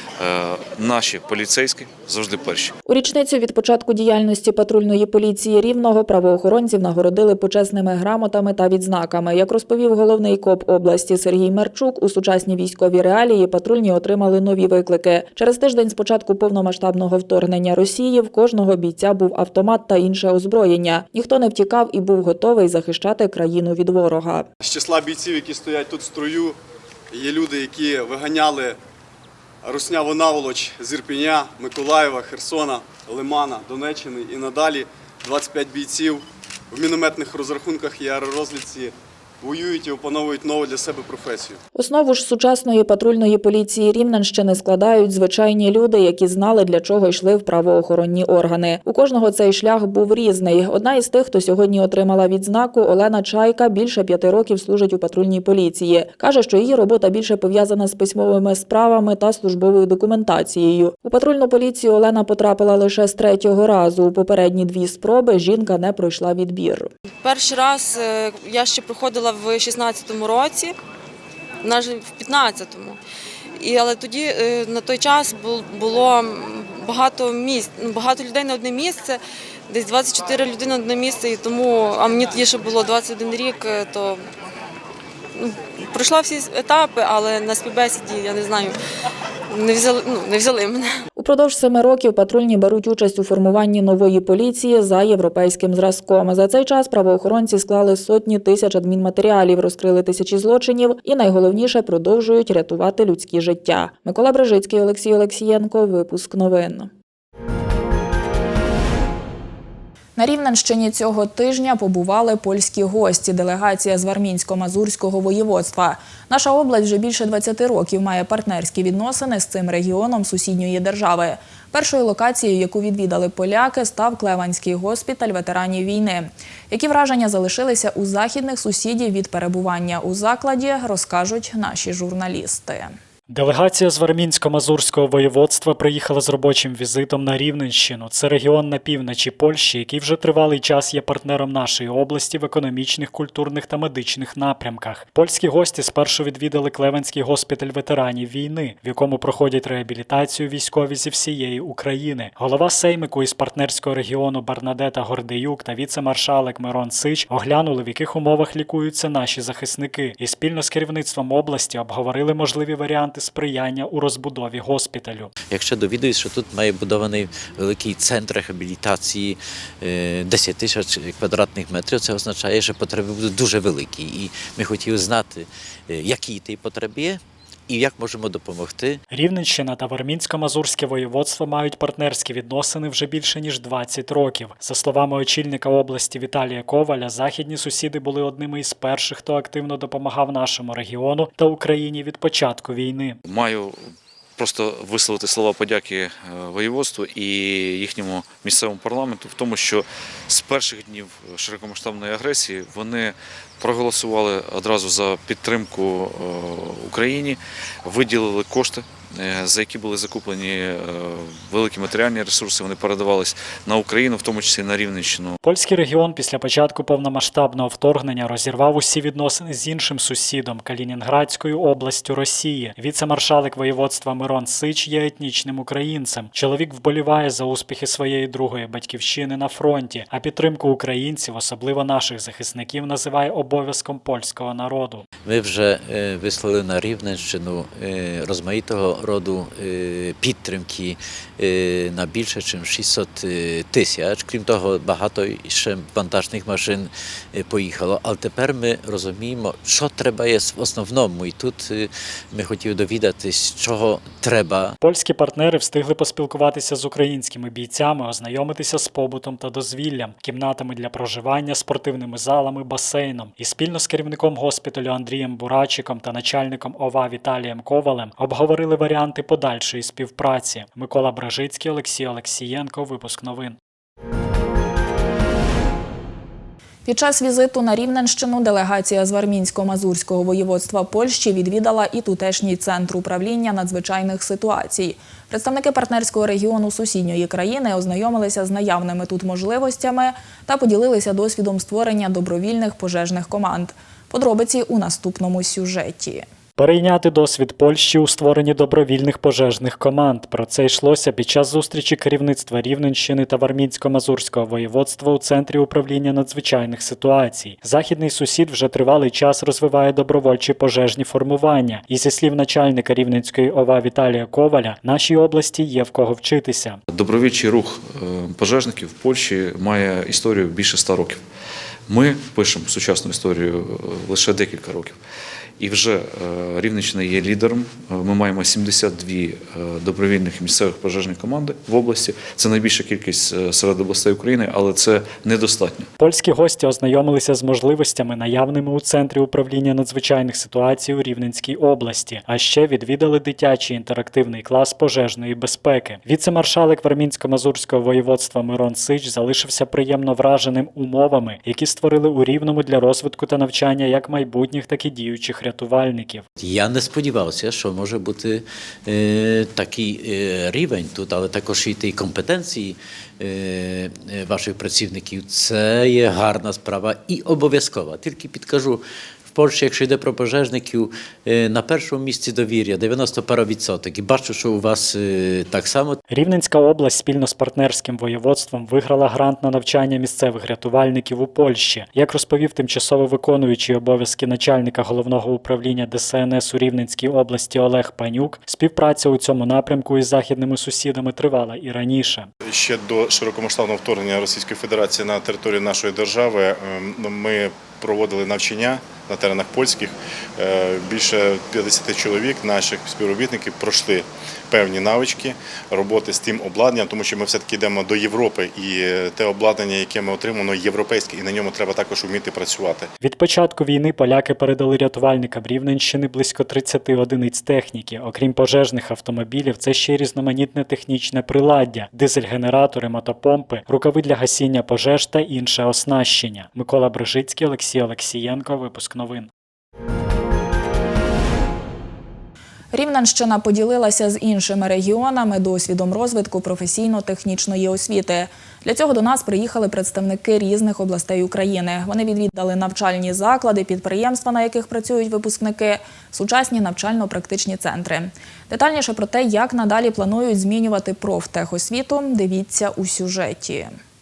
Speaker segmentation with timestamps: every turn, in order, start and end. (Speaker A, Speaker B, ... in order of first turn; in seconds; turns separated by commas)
Speaker A: 0.2-2.7, Speaker B: 2.9-24.5, Speaker C: 24.6-26.6, Speaker C: 27.1-28.8, Speaker C: 29.6-41.6, Speaker B: 41.7-66.9, Speaker D: 67.2-70.7, Speaker D: 71.6-73.0, Speaker D: 73.6-84.2, Speaker D: 85.3-88.8, Speaker D: 89.5-90.9, Speaker B: 91.2-106.9, Speaker B: 110.2-132.9, Speaker E: 133.3-165.3, Speaker F: 165.5-179.0, Speaker E: 179.1-193.2, Speaker A: 193.2-193.8, Speaker A: 194.4-215.4, Speaker E: 215.4-235.0, Speaker F: 235.2-254.8, Speaker E: 254.8-273.6, Speaker B: 276.8-296.2, Speaker E: 296.6-316.8, Speaker A: 316.9-321.2, Speaker A: 321.9-325.0, Speaker A: 325.6-335.9, Speaker E: 336.0-356.2, Speaker F: 356.4-376.0, Speaker E: 376.1-392.3, Speaker G: 392.5-412.9, Speaker E: 413.0-429.3, Speaker B: 432.7-453.8